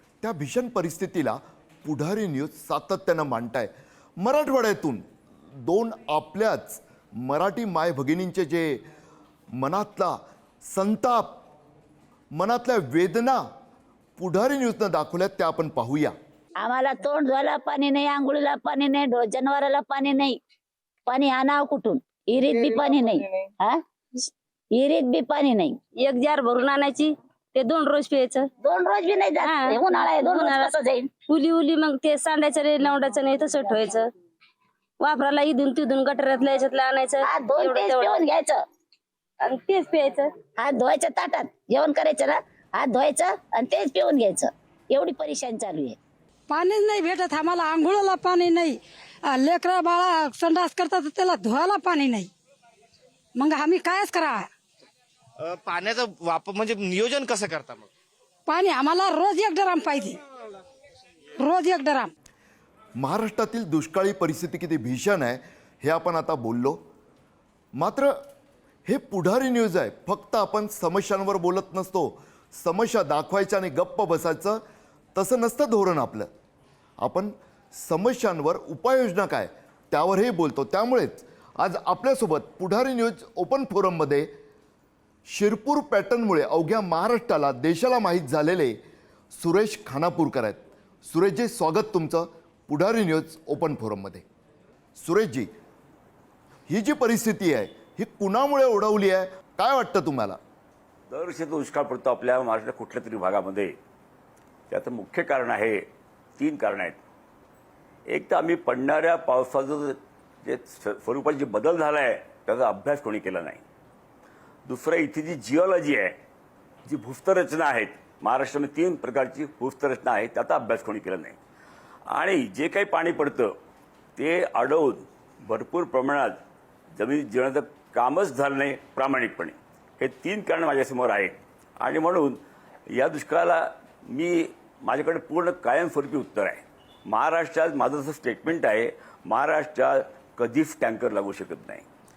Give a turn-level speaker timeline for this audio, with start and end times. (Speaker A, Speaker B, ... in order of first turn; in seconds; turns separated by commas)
Speaker A: 0.2-5.1, Speaker A: 5.6-8.8, Speaker A: 9.6-11.4, Speaker A: 12.3-13.4, Speaker A: 14.2-16.1, Speaker B: 16.6-20.4, Speaker B: 21.1-23.8, Speaker B: 24.7-25.8, Speaker C: 26.0-28.5, Speaker B: 28.6-31.1, Speaker C: 29.4-30.7, Speaker C: 31.3-34.1, Speaker C: 35.0-38.2, Speaker B: 37.2-38.6, Speaker C: 39.4-40.3, Speaker B: 40.6-46.0, Speaker D: 46.5-52.3, Speaker D: 53.4-54.5, Speaker E: 55.4-57.9, Speaker D: 58.5-60.2, Speaker D: 61.4-62.1, Speaker A: 63.0-66.8, Speaker A: 67.8-68.2, Speaker A: 68.8-74.6, Speaker A: 75.1-76.3, Speaker A: 77.0-84.3, Speaker A: 85.2-88.8, Speaker A: 89.3-94.2, Speaker A: 95.0-95.5, Speaker A: 96.7-100.4, Speaker F: 101.1-103.8, Speaker F: 104.7-105.8, Speaker F: 106.4-107.0, Speaker F: 108.1-113.6, Speaker F: 114.7-116.1, Speaker F: 116.8-121.4, Speaker F: 122.1-123.5, Speaker F: 124.2-126.4, Speaker F: 127.0-141.8